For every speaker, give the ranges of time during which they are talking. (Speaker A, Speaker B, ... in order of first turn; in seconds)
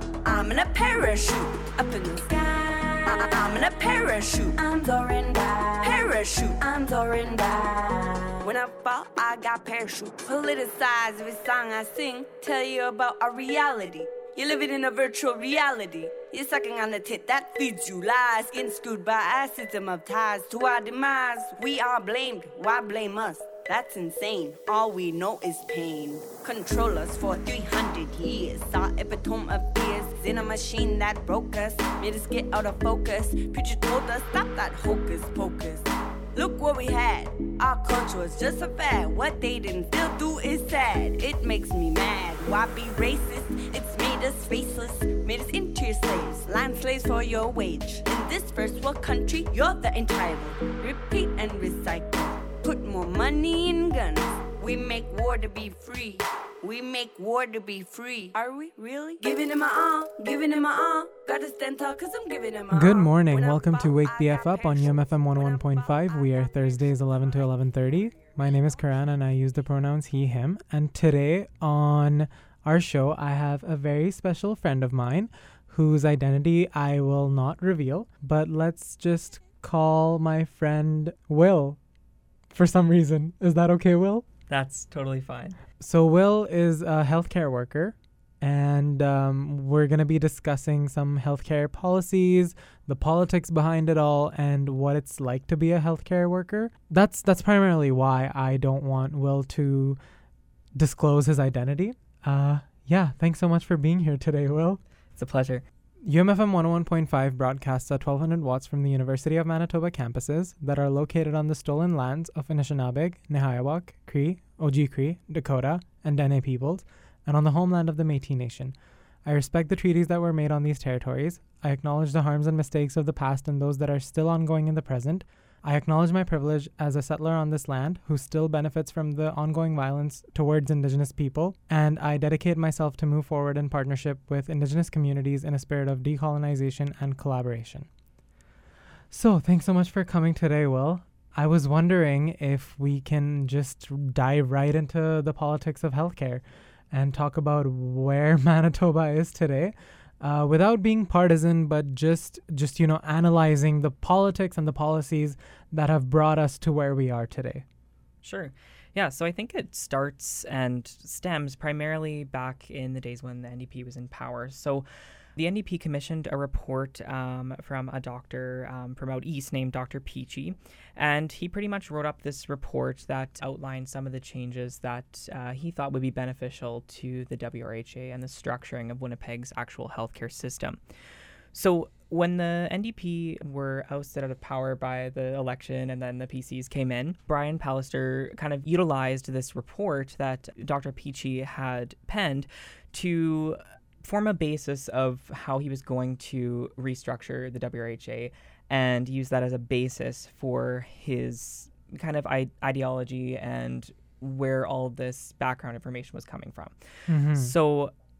Speaker A: 0.2-67.5
Speaker B: 62.7-81.8, 82.5-84.2, 85.8-100.0, 100.8-104.8, 106.0-118.7, 119.2-137.9, 139.1-157.6, 207.1-207.5
Speaker C: 84.5-85.6, 105.2-105.6, 158.2-164.8, 165.3-180.8, 181.5-207.9